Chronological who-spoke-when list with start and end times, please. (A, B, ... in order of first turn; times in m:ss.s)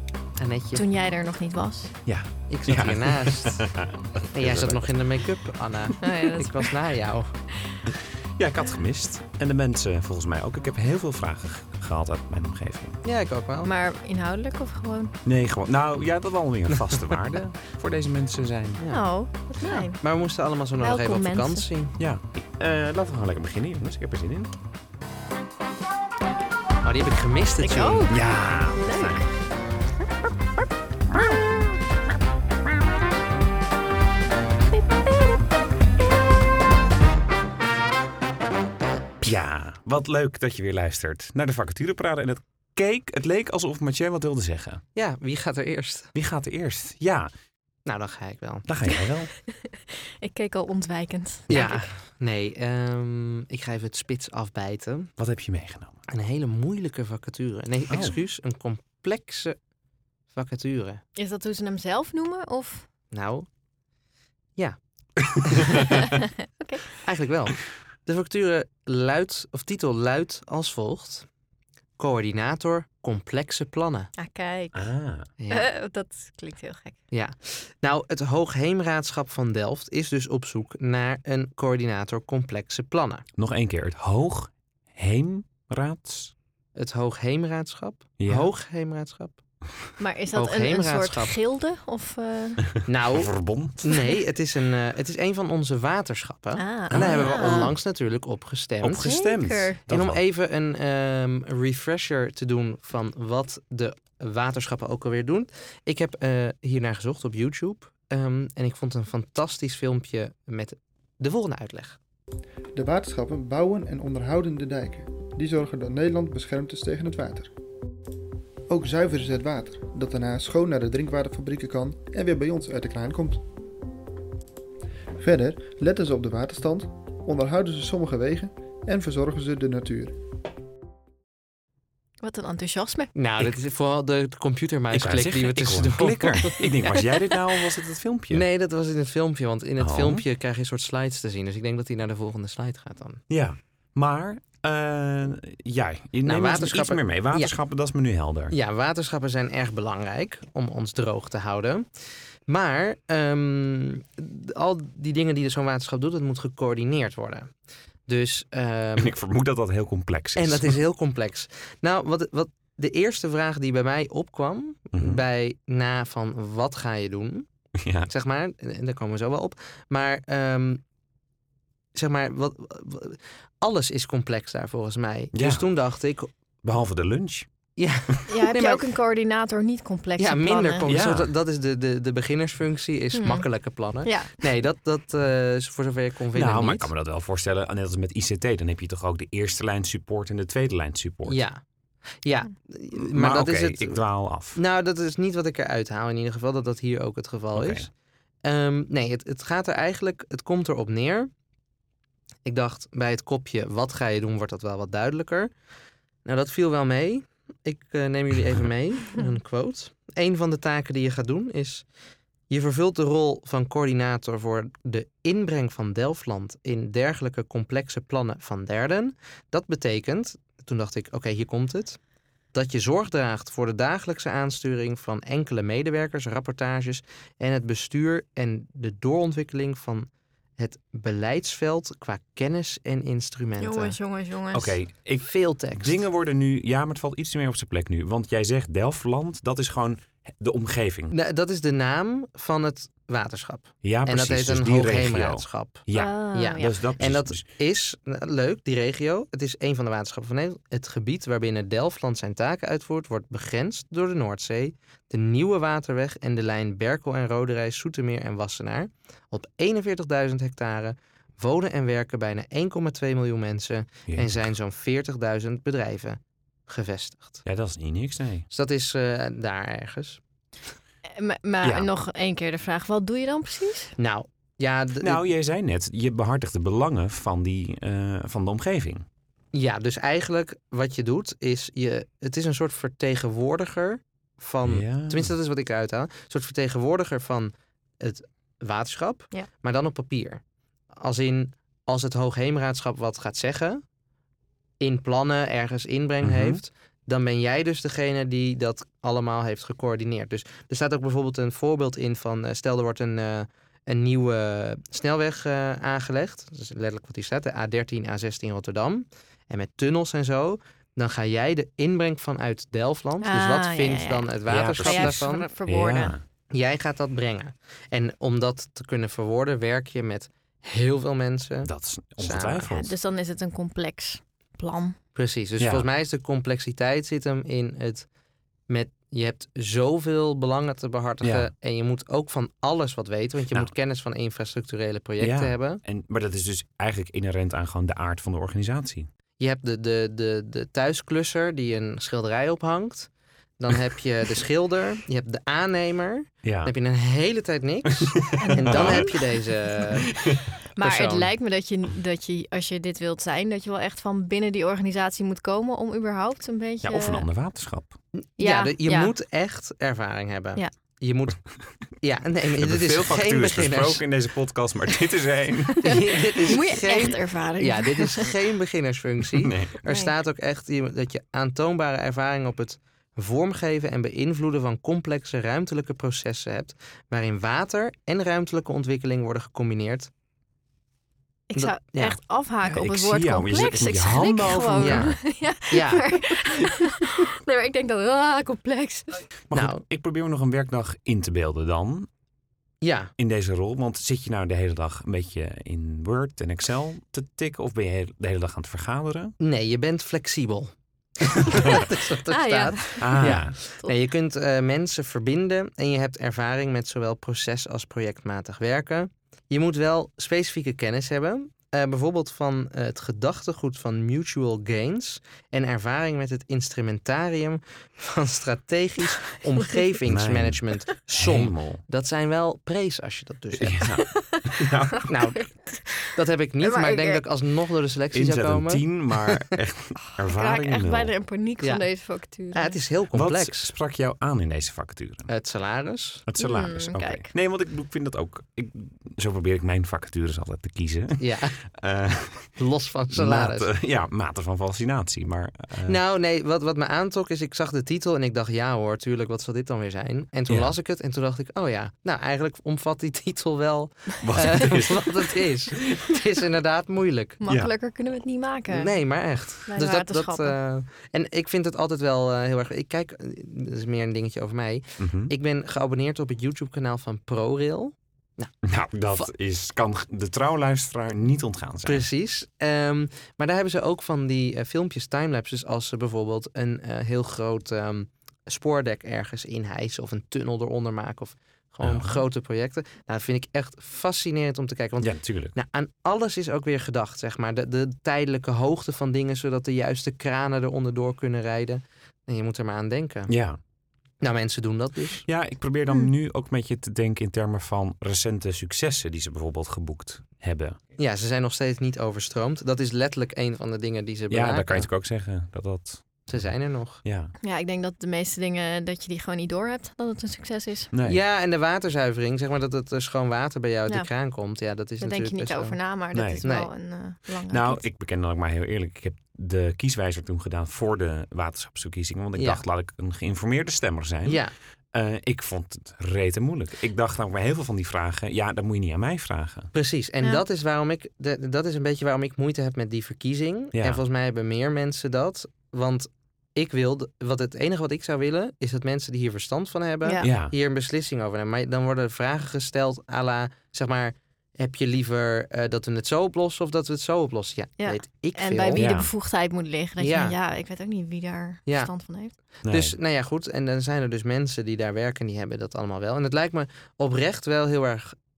0:00.4-0:00.8 A
0:00.7-0:02.0 B
0:02.0-0:05.0 C
0:02.5-0:03.7 A
0:04.3-0:07.4 A
0:06.0-0:06.7 B
0:07.9-0:13.0 C
0:13.0-0:13.7 A
0:13.6-0:15.1 B
0:15.2-0:18.8 C
0:16.8-0:17.2 A
0:18.8-0:21.9 A
0:18.9-0:20.0 B
0:20.8-0:21.6 B
0:22.0-0:24.5 C
0:26.8-0:28.1 A
0:27.6-0:29.3 B
0:28.1-0:29.2 C
0:31.1-0:31.4 B
0:34.8-0:35.4 B
0:39.2-0:44.8 C
0:44.9-0:46.1 A
0:46.1-0:47.3 C
0:47.8-0:48.7 A
0:48.7-0:49.3 C
0:49.9-0:51.9 B
0:51.5-0:55.1 A
0:55.2-0:56.0 C
0:56.1-0:59.6 A
0:57.9-0:58.1 C
1:00.3-1:01.0 A
1:01.2-1:02.9 B
1:03.1-1:03.5 A
1:06.6-1:07.0 B
1:07.0-1:11.3 A
1:12.0-1:14.1 A
1:14.2-1:14.9 B
1:14.7-1:15.3 C
1:15.4-1:15.7 A
1:15.5-1:17.0 B
1:17.1-1:23.2 A
1:23.4-1:26.3 C
1:26.7-1:29.4 A
1:28.2-1:28.5 C
1:30.0-1:32.8 B
1:30.3-1:31.3 A
1:32.9-1:39.1 A
1:33.1-1:33.8 C
1:36.6-1:37.7 B
1:36.9-1:37.7 C
1:38.8-1:40.2 C
1:39.0-1:39.8 B
1:39.9-1:52.0 A
1:52.7-1:57.5 D
1:58.7-2:03.4 D
2:05.2-2:10.2 D
2:12.2-2:13.1 B
2:13.1-2:16.6 A
2:14.9-2:18.4 C
2:18.3-2:23.2 A
2:19.8-2:20.2 C
2:23.3-2:28.5 C
2:26.2-2:27.5 A
2:28.5-2:37.5 A
2:38.0-2:39.1 A
2:39.0-2:40.8 C
2:40.4-2:47.5 A
2:44.9-2:45.2 C
2:47.8-2:48.1 C
2:48.0-2:50.8 A
2:51.9-2:56.3 A
2:55.3-2:55.7 C
2:56.6-2:57.5 C
2:57.8-2:58.8 A
2:58.3-3:00.9 B
3:00.2-3:06.9 A
3:00.9-3:01.3 C
3:03.1-3:04.5 B
3:06.3-3:11.4 C
3:11.2-3:11.6 A
3:12.2-3:14.0 A
3:13.1-3:14.6 C
3:14.5-3:17.9 A
3:17.5-3:17.9 C
3:18.4-3:21.3 A
3:22.4-3:25.5 A
3:26.2-3:31.9 A
3:32.5-3:42.0 A
3:42.5-3:54.0 A
3:53.6-3:54.8 B
3:54.5-4:01.1 C
3:55.2-3:56.0 A
4:01.1-4:27.4 A
4:03.8-4:07.4 C
4:05.9-4:06.7 B
4:24.1-4:24.5 C
4:27.4-4:28.5 C
4:28.5-4:30.2 A
4:31.1-4:33.9 B
4:31.6-4:31.9 C
4:34.0-4:35.2 A
4:35.0-4:39.0 C
4:39.5-4:50.4 A
4:44.6-4:45.3 C
4:51.0-4:53.8 A
4:54.8-5:15.5 A
4:56.2-4:56.6 C
5:13.2-5:16.1 B
5:14.5-5:16.2 C
5:16.5-5:22.7 A
5:21.6-5:22.9 C
5:22.8-5:25.0 B
5:25.1-5:28.1 A
5:25.6-5:25.9 C
5:28.7-5:35.8 A
5:31.2-5:31.5 C
5:35.2-5:39.1 C
5:39.4-5:50.2 A
5:46.4-5:46.7 C
5:48.4-5:49.2 B
5:48.6-5:49.0 C
5:50.8-5:57.2 B
5:50.8-5:51.3 A
5:56.8-5:58.0 C
5:58.2-6:04.0 A
5:58.4-5:59.1 B
6:02.6-6:05.8 C
6:05.8-6:20.1 A
6:05.8-6:08.3 B
6:09.4-6:09.7 C
6:09.8-6:10.1 B
6:21.5-6:29.2 B
6:21.5-6:22.2 A
6:22.7-6:25.1 C
6:24.7-6:26.2 A
6:29.5-6:32.1 C
6:29.5-6:29.8 A
6:32.8-6:33.1 A
6:33.2-6:39.3 C
6:39.4-7:03.9 A
6:42.3-6:43.9 B
6:43.0-6:43.5 C
7:00.0-7:01.8 C
7:03.6-7:05.1 C
7:05.0-7:07.2 B
7:05.1-7:09.3 A
7:08.1-7:11.1 C
7:10.3-7:12.8 B
7:11.6-7:11.9 A
7:12.5-7:13.7 A
7:13.1-7:15.3 C
7:15.3-7:16.2 A
7:16.2-7:22.6 C
7:16.4-7:17.3 B
7:21.2-7:21.6 A
7:22.6-7:23.7 A
7:23.1-7:26.0 C
7:25.8-7:37.4 A
7:30.5-7:30.7 C
7:34.2-7:35.2 C
7:37.4-7:39.0 B
7:37.5-7:37.7 C
7:38.7-7:48.6 A
7:39.6-7:40.6 B
7:45.0-7:45.3 C
7:48.6-7:52.0 C
7:51.8-8:13.3 A
8:01.8-8:02.2 C
8:05.0-8:05.5 C
8:13.3-8:13.6 C
8:14.2-8:15.2 A
8:15.3-8:20.8 C
8:21.0-8:24.9 A
8:24.3-8:27.3 C
8:26.3-8:27.0 A
8:27.4-8:30.9 B
8:30.9-8:31.2 C
8:31.0-8:35.8 A
8:35.0-8:37.8 B
8:36.1-8:36.5 C
8:36.4-8:36.7 A
8:37.5-8:49.7 C
8:42.4-8:42.6 A
8:44.2-8:44.5 A
8:49.7-9:08.9 A
8:53.7-8:54.0 C
9:00.2-9:00.5 C
9:07.8-9:12.3 B
9:08.7-9:09.1 C
9:10.0-9:10.4 A
9:11.7-9:11.9 A
9:12.5-9:18.2 A
9:12.6-9:13.0 C